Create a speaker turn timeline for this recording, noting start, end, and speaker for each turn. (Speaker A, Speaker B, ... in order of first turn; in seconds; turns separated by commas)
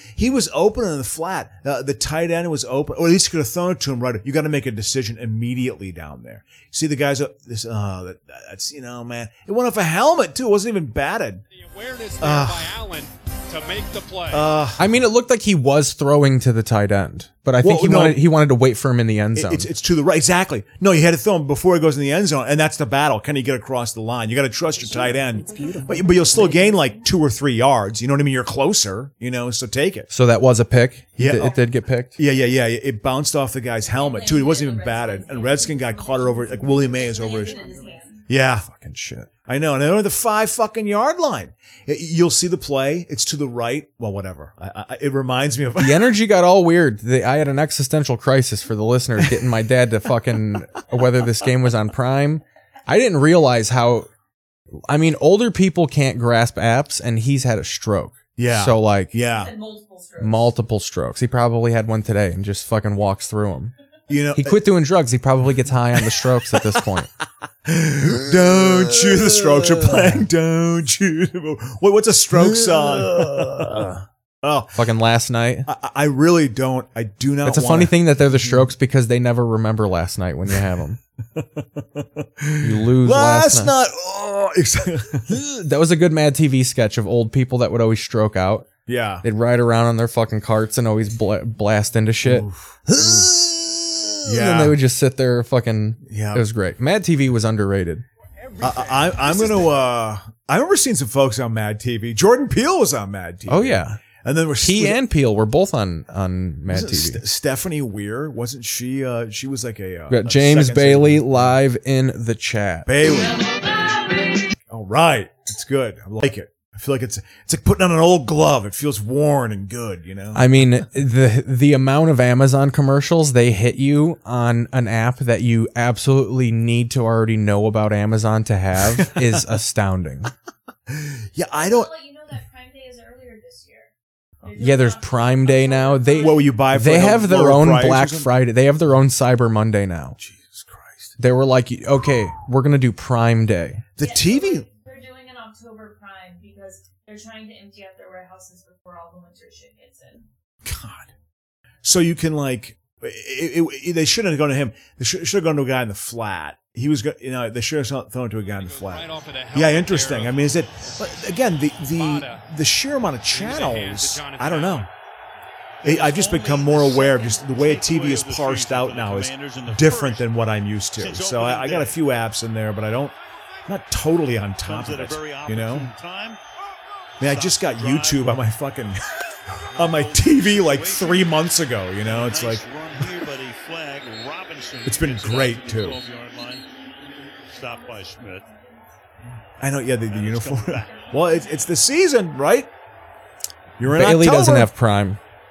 Speaker A: 0.1-11.4, Speaker B: 11.5-14.5, Speaker A: 12.2-12.8, Speaker A: 14.3-14.8, Speaker C: 14.8-19.7, Speaker A: 17.6-18.2, Speaker A: 19.3-30.1, Speaker D: 25.6-26.9, Speaker C: 25.6-25.9, Speaker C: 30.1-32.1, Speaker A: 31.2-31.6, Speaker A: 32.1-37.7, Speaker D: 33.9-38.2, Speaker A: 38.3-38.7, Speaker C: 38.7-39.3, Speaker A: 39.4-46.1, Speaker C: 45.8-54.1, Speaker C: 54.9-59.1, Speaker A: 58.4-59.5, Speaker D: 59.3-60.5, Speaker C: 60.2-63.7, Speaker A: 64.1-64.6, Speaker C: 64.3-67.1, Speaker A: 67.6-74.8, Speaker C: 68.5-70.2, Speaker C: 72.3-74.0, Speaker C: 74.8-75.7, Speaker A: 75.7-78.7, Speaker C: 77.4-81.0, Speaker A: 81.3-85.3, Speaker C: 82.6-83.7, Speaker C: 85.3-88.7, Speaker A: 88.9-89.2, Speaker C: 89.2-98.0, Speaker A: 92.2-93.3, Speaker A: 94.2-94.8, Speaker A: 96.0-96.4, Speaker A: 98.6-105.0, Speaker C: 103.5-104.0, Speaker C: 104.6-107.2, Speaker A: 106.7-111.5, Speaker C: 110.1-112.9, Speaker A: 112.8-113.5, Speaker A: 114.7-120.7, Speaker C: 120.3-130.3, Speaker A: 128.9-129.4, Speaker A: 130.9-131.9, Speaker D: 131.5-133.9, Speaker D: 134.4-136.6, Speaker C: 134.6-140.2, Speaker A: 136.2-138.3, Speaker A: 140.2-141.1, Speaker C: 141.2-143.8, Speaker A: 144.0-144.7, Speaker D: 144.0-150.2, Speaker A: 150.6-151.1, Speaker A: 151.8-164.9, Speaker B: 158.6-161.2, Speaker B: 161.9-162.4, Speaker B: 163.3-164.9, Speaker E: 165.8-170.3, Speaker A: 165.8-173.1, Speaker E: 171.0-172.0, Speaker A: 173.7-175.9, Speaker E: 174.6-176.4, Speaker A: 177.2-179.0, Speaker E: 177.2-178.3, Speaker A: 179.6-182.6, Speaker E: 179.7-181.4, Speaker E: 182.0-186.6, Speaker A: 184.8-186.0, Speaker E: 187.5-188.5, Speaker D: 187.5-188.9, Speaker A: 189.6-192.7, Speaker E: 190.1-191.1, Speaker D: 190.7-191.7, Speaker A: 193.8-194.7, Speaker C: 193.9-195.2